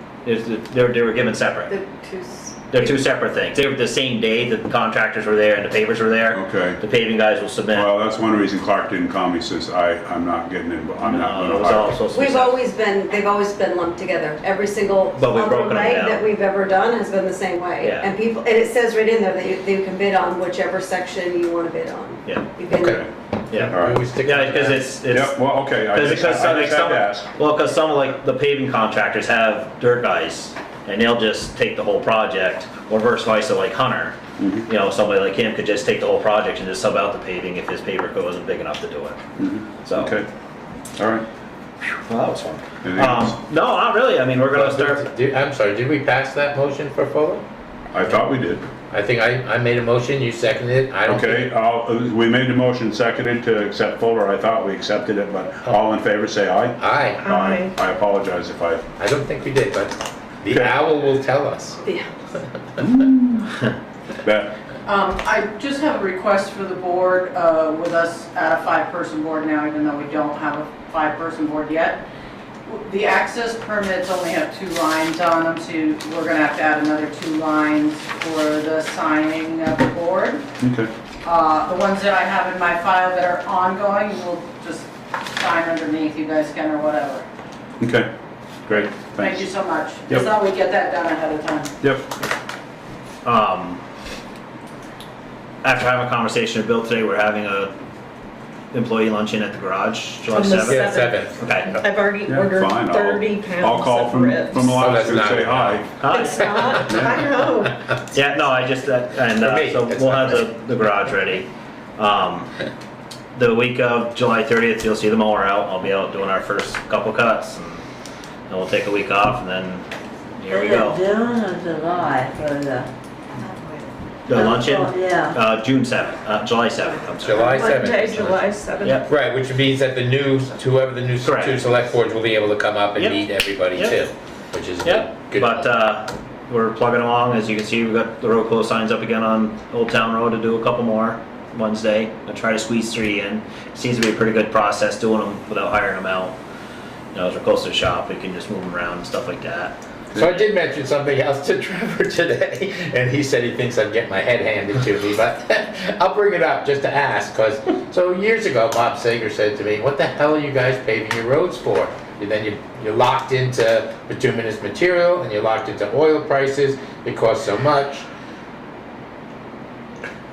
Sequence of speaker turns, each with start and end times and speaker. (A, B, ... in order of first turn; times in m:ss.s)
0:00.2-0:01.8 A
0:01.7-0:02.9 B
0:02.7-0:07.9 A
0:06.3-0:06.8 C
0:07.7-0:12.0 C
0:11.0-0:12.6 A
0:12.1-0:23.0 B
0:15.2-0:16.2 A
0:17.8-0:18.2 A
0:22.7-0:24.8 D
0:22.8-0:23.1 C
0:23.5-0:39.2 A
0:23.7-0:24.0 C
0:25.1-0:27.3 C
0:34.4-0:34.7 C
0:39.4-0:40.3 C
0:39.8-0:40.1 A
0:41.0-0:41.2 C
0:41.8-0:45.0 A
0:42.8-0:43.4 C
0:44.5-0:47.4 D
0:47.9-0:48.7 C
0:48.9-0:51.5 D
0:51.1-0:58.8 C
0:56.8-0:57.2 D
0:57.3-0:57.7 E
0:59.0-1:01.8 D
1:00.5-1:00.8 C
1:01.8-1:02.1 B
1:02.8-1:03.6 C
1:04.2-1:04.6 C
1:04.9-1:12.0 F
1:12.7-1:20.5 F
1:20.6-1:20.9 C
1:21.2-1:27.3 F
1:27.8-1:28.1 C
1:28.6-1:29.4 C
1:29.2-1:31.7 F
1:31.8-1:32.1 C
1:33.2-1:33.8 A
1:35.6-1:37.7 A
1:38.7-1:41.8 A
1:40.3-1:44.6 E
1:40.6-1:41.3 D
1:42.2-1:46.1 C
1:44.6-1:47.7 D
1:46.0-1:46.6 A
1:46.1-1:47.8 E
1:46.7-1:47.3 C
1:48.1-1:52.5 A
1:49.4-1:50.5 D
1:53.4-1:57.8 A
1:58.5-1:59.9 A
2:00.4-2:01.0 A
2:00.5-2:02.9 G
2:03.4-2:03.7 E
2:04.3-2:08.2 A
2:04.4-2:05.4 G
2:07.2-2:08.5 D
2:07.4-2:09.0 E
2:08.8-2:09.1 A
2:09.0-2:15.7 D
2:11.2-2:11.6 A
2:13.0-2:14.0 A
2:14.8-2:26.4 A
2:27.1-2:29.8 A
2:30.2-2:48.0 D